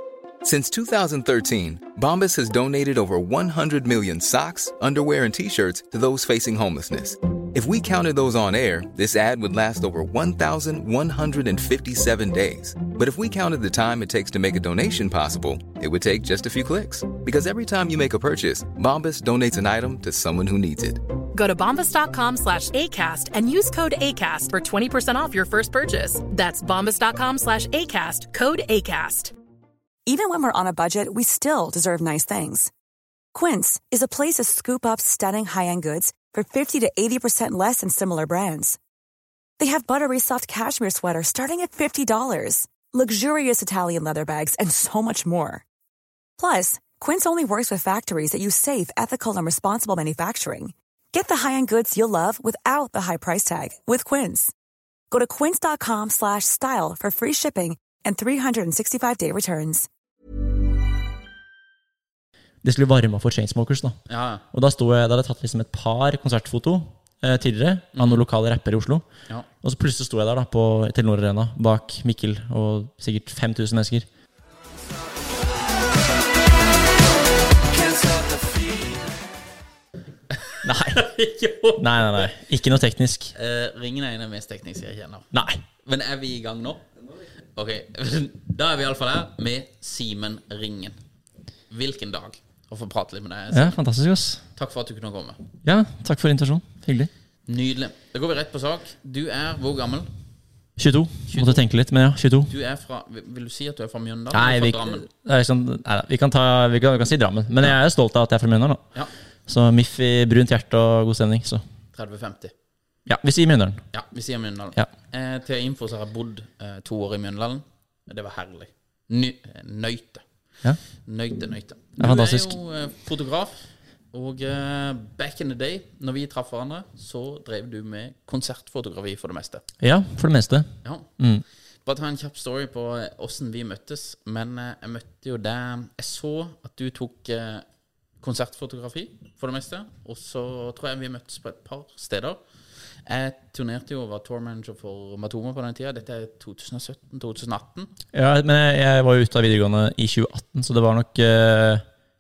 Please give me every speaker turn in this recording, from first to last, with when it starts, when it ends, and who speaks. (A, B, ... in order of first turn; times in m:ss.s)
0:00.4-0:21.0 A
0:21.3-0:29.3 B
0:30.0-0:32.7 C
0:33.3-0:38.8 C
0:39.6-0:45.6 C
0:46.4-0:54.5 C
0:55.1-0:59.9 C
1:02.6-1:04.0 D
1:04.1-1:04.4 E
1:04.5-1:09.0 D
1:07.9-1:08.2 E
1:09.6-1:14.1 D
1:20.5-1:22.3 E
1:20.6-1:21.0 D
1:21.8-1:23.3 D
1:23.3-1:25.3 E
1:25.3-1:25.6 D
1:25.8-1:26.9 E
1:27.5-1:31.0 E
1:31.7-1:33.8 E
1:33.5-1:34.4 D
1:34.6-1:35.4 E
1:35.6-1:37.1 D
1:37.5-1:40.1 E
1:40.8-1:42.5 D
1:41.3-1:41.6 E
1:42.5-1:45.0 E
1:44.3-1:48.8 D
1:49.5-1:51.6 D
1:51.9-1:52.5 E
1:53.0-1:53.8 D
1:53.9-2:00.2 E
2:01.0-2:09.6 E
2:02.0-2:02.6 D
2:09.8-2:11.4 D
2:10.8-2:11.1 E
2:11.8-2:17.6 E
2:18.2-2:22.4 E
2:23.0-2:27.9 E
2:28.1-2:31.8 D